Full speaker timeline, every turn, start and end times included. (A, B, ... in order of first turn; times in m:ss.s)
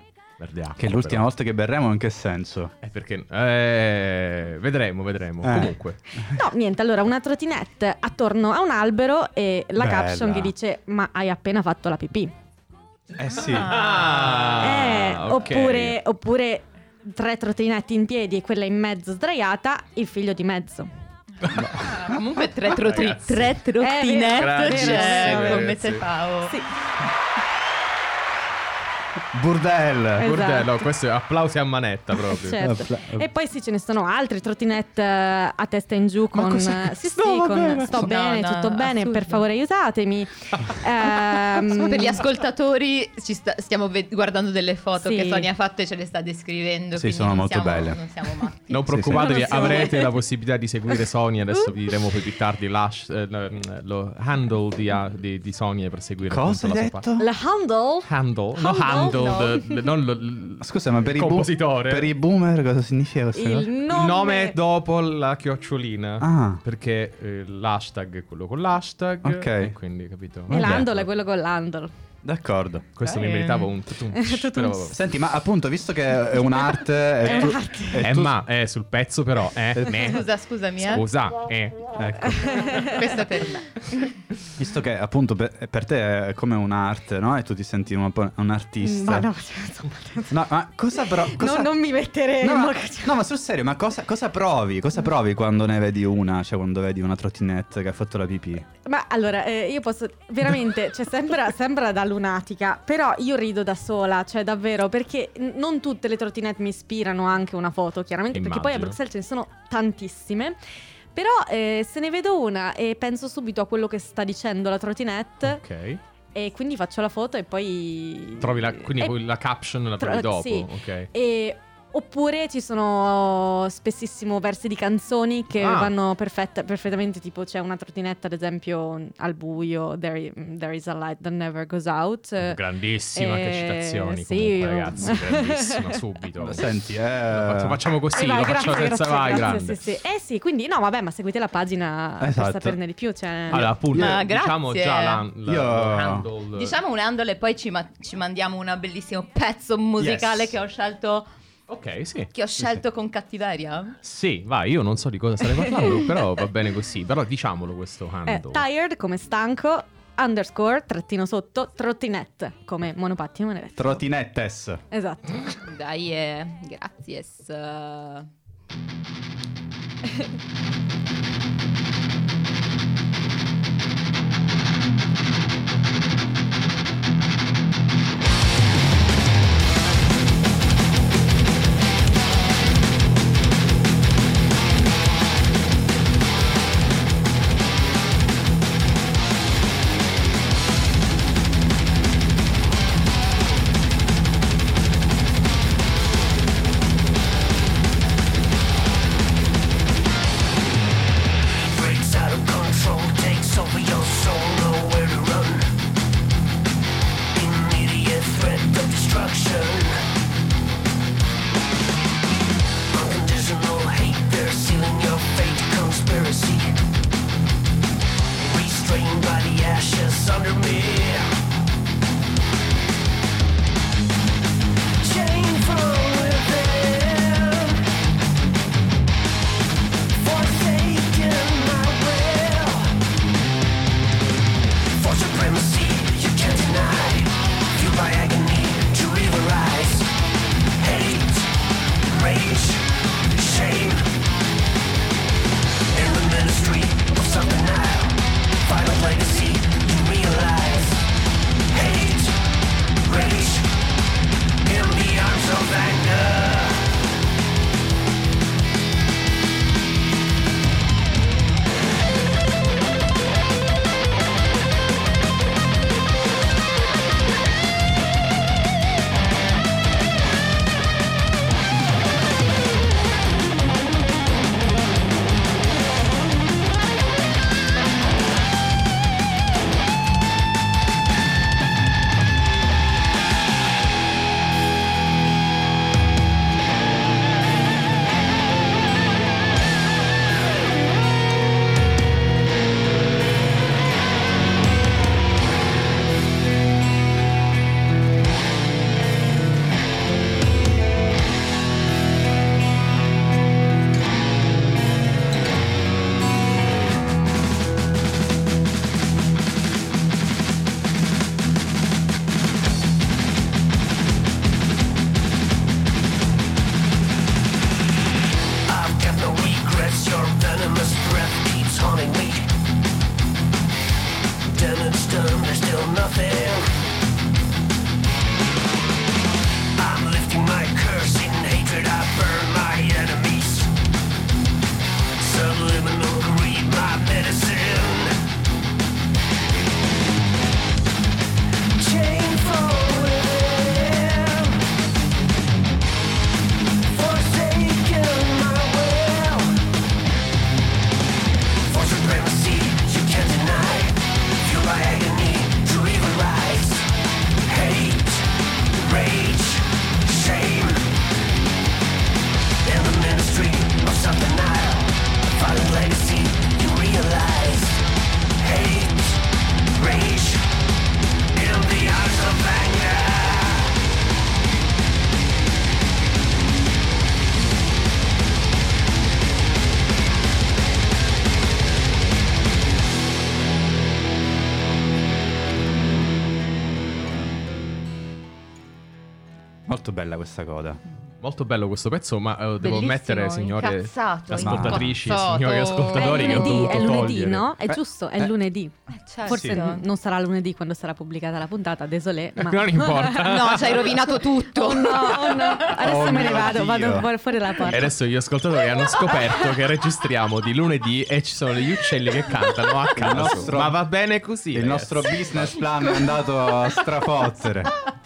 0:00.4-0:01.2 A
0:00.8-0:02.7 B
0:02.8-0:06.0 A
0:05.4-0:06.3 B
0:06.3-0:12.3 C
0:09.8-0:10.5 B
0:13.2-0:13.8 B
0:13.3-0:14.9 D
0:13.4-0:16.0 A
0:14.6-0:20.9 C
0:21.4-0:21.7 A
0:21.5-0:26.6 D
0:21.5-0:21.8 B
0:22.7-0:23.6 A
0:23.8-0:25.8 C
0:24.4-0:26.1 A
0:26.4-0:26.7 C
0:29.3-0:30.4 B
0:30.2-0:30.9 C
0:30.2-0:32.6 A
0:32.2-0:42.2 C
0:32.6-0:33.3 B
0:36.3-0:38.1 A
0:37.9-0:39.4 D
0:41.6-0:48.9 D
0:45.0-0:45.5 C
0:46.9-0:48.0 B
0:48.7-0:57.0 A
0:48.9-0:49.9 B
0:49.1-0:50.1 C
0:56.3-0:57.3 B
0:57.2-0:59.7 C
0:58.0-1:02.1 A
0:59.0-0:59.6 D
1:00.6-1:03.8 B
1:03.4-1:04.6 C
1:03.9-1:11.1 A
1:06.2-1:06.6 B
1:09.2-1:09.8 B
1:10.5-1:10.9 B
1:10.5-1:11.9 C
1:12.2-1:12.9 B
1:13.0-1:15.0 A
1:13.0-1:13.7 D
1:14.1-1:14.9 C
1:14.9-1:18.4 B
1:17.2-1:18.1 C
1:18.0-1:21.8 A
1:19.9-1:21.0 D
1:22.0-1:22.9 B
1:22.3-1:23.1 C
1:22.8-1:24.0 D
1:24.6-1:29.3 B
1:28.8-1:30.4 C
1:30.3-1:31.8 B
1:31.0-1:33.2 C
1:32.4-1:38.7 B
1:38.8-1:50.6 C
1:48.3-1:49.0 A
1:51.1-1:55.6 C
1:55.4-1:56.0 A
1:56.4-1:59.1 C
1:58.4-2:01.1 A
2:00.0-2:12.6 C
2:05.6-2:06.0 A
2:12.4-2:16.7 A
2:13.1-2:15.9 C
2:16.4-2:17.8 B
2:17.3-2:19.8 A
2:18.1-2:23.7 C
2:22.2-2:22.8 B
2:23.5-2:24.2 B
2:23.5-2:26.8 A
2:23.9-2:25.2 D
2:25.4-2:26.3 B
2:26.5-2:31.3 D
2:30.0-2:30.5 B
2:31.7-2:32.3 A
2:32.3-2:34.0 D
2:34.0-2:38.6 A
2:38.3-2:44.0 C
2:43.8-2:44.8 B
2:44.9-2:45.4 C
2:45.6-2:48.3 D
3:21.6-3:25.7 E
3:27.3-3:30.0 E
3:32.9-3:36.8 E
3:38.4-3:41.3 E
3:45.0-3:47.9 E
3:50.1-3:53.0 E
3:54.9-4:00.1 E
4:00.8-4:04.1 E
4:05.9-4:11.0 E
4:11.7-4:13.8 E
4:14.6-4:17.0 E
5:18.6-5:22.5 E
5:24.4-5:26.7 E
5:29.7-5:33.7 E
5:35.2-5:38.2 E
5:41.8-5:44.6 E
5:46.8-5:49.6 E
5:51.6-5:56.9 E
5:57.4-6:00.9 E
6:02.6-6:07.8 E
6:08.4-6:10.4 E
6:11.3-6:13.8 E
6:29.7-6:30.8 B
6:31.2-6:37.5 A
6:32.6-6:37.0 D
6:34.3-6:35.0 B
6:35.9-6:38.8 C
6:37.7-6:38.3 B
6:38.9-6:39.8 D
6:39.2-6:43.4 C
6:39.3-6:39.6 B
6:42.4-6:44.1 A
6:43.1-6:45.8 D
6:44.5-6:47.9 C
6:45.6-6:47.1 B
6:47.6-6:55.6 A
6:52.9-6:53.8 B
6:54.5-6:57.7 B
6:55.8-6:56.9 D